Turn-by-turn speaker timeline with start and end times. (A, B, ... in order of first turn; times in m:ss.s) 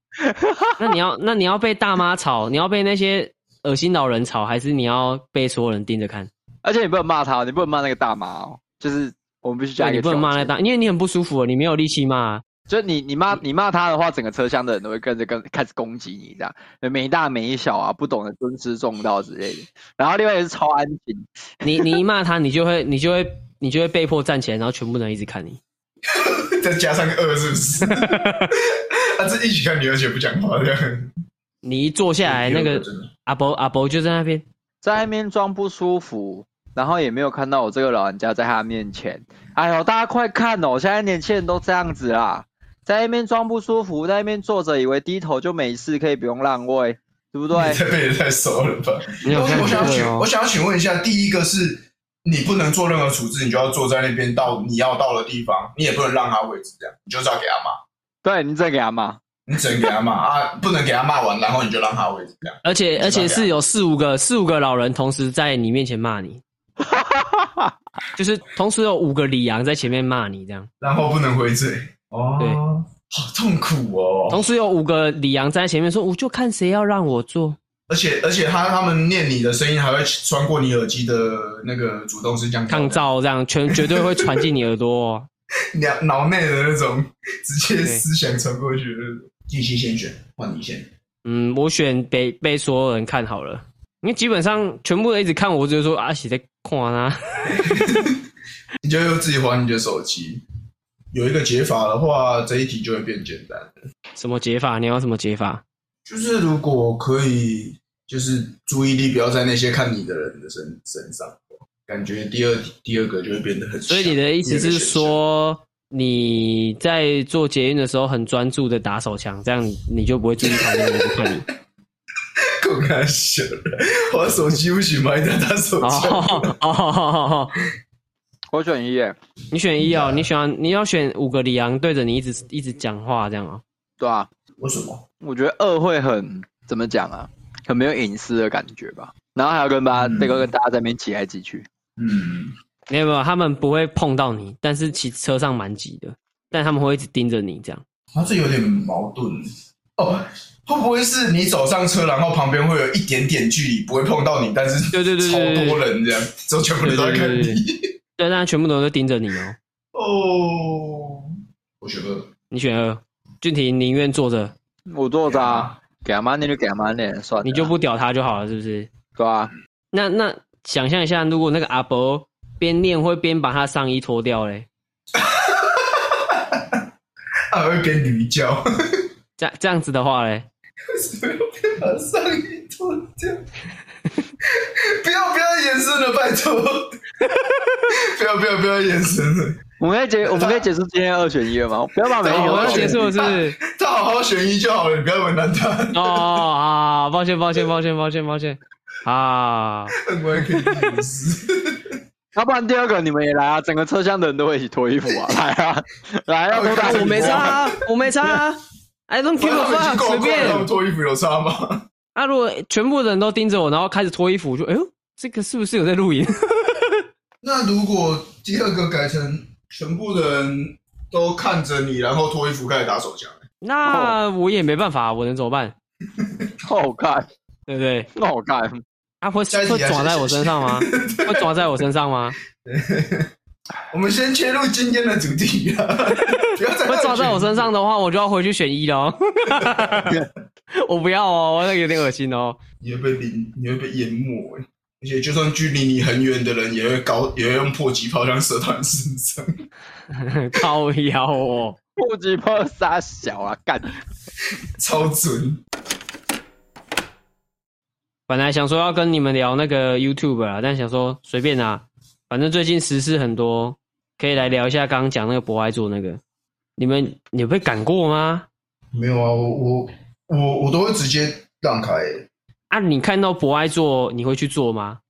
0:00.2-0:00.8 A
0:00.8-0:06.3 B
0:06.6-0:10.5 A
0:09.8-0:12.4 B
0:12.7-0:21.2 A
0:21.6-0:25.6 B
0:26.1-0:31.1 C
0:27.9-0:28.5 B
0:31.6-0:34.4 B
0:32.2-0:33.1 C
0:34.8-0:47.8 A
0:47.5-0:57.8 C
0:49.2-0:50.3 B
0:49.6-0:49.9 A
0:58.2-0:59.2 A
0:59.5-1:03.5 C
1:02.6-1:06.4 B
1:06.8-1:07.7 A
1:08.2-1:10.7 B
1:10.8-1:14.4 C
1:14.3-1:17.6 B
1:17.9-1:23.0 C
1:22.7-1:25.3 B
1:23.7-1:24.5 C
1:25.7-1:30.9 C
1:31.2-1:37.6 B
1:37.5-1:38.2 C
1:38.8-1:40.4 C
1:41.1-1:43.7 C
1:44.2-1:45.6 B
1:46.0-1:55.2 C
1:53.9-2:01.4 B
2:00.4-2:01.3 C
2:02.6-2:06.5 C
2:05.8-2:07.6 B
2:08.5-2:09.2 A
2:09.5-2:13.6 B
2:09.8-2:10.3 C
2:14.0-2:14.3 A
2:14.6-2:15.0 C
2:15.2-2:21.7 A
2:19.9-2:20.5 C
2:22.0-2:22.5 C
2:22.9-2:27.8 B
2:28.1-2:37.9 C
2:34.9-2:35.8 B
2:36.8-2:37.6 B
2:38.2-2:39.6 B
2:39.9-2:41.3 C
2:41.8-2:42.3 C
2:42.5-2:44.5 B
2:44.9-2:47.7 A
2:45.3-2:45.7 C
2:47.4-2:48.9 B
2:49.2-2:49.5 A
2:49.9-2:54.7 B
2:55.1-2:56.8 C
2:57.5-2:59.0 C
2:59.4-3:00.5 B
3:00.9-3:03.4 C
3:04.4-3:06.9 C
3:07.3-3:07.8 B
3:07.9-3:09.6 C
3:09.8-3:13.0 A
3:10.2-3:10.7 C
3:12.2-3:16.4 C
3:12.3-3:13.6 B
3:15.9-3:20.0 B
3:20.0-3:22.0 C
3:22.3-3:27.6 A
3:26.5-3:27.7 C
3:26.7-3:30.7 B
3:29.4-3:31.8 C
3:32.1-3:37.0 B
3:37.4-3:43.4 C
3:43.6-3:45.7 B
3:43.8-3:44.2 A
3:46.2-3:46.5 C
3:46.6-3:47.2 A
3:47.7-3:48.1 B
3:48.2-3:48.8 A
3:49.2-3:52.4 B
3:49.5-3:51.6 C
3:52.6-3:53.3 C
3:53.9-3:57.7 C
3:56.3-4:00.2 B
3:59.5-4:00.1 C
4:00.7-4:02.6 B
4:02.8-4:09.6 C
4:10.1-4:11.8 B
4:12.0-4:13.9 A
4:14.7-4:15.6 C
4:18.3-4:26.2 B
4:26.8-4:28.5 B
4:28.9-4:32.2 C
4:32.7-4:35.0 B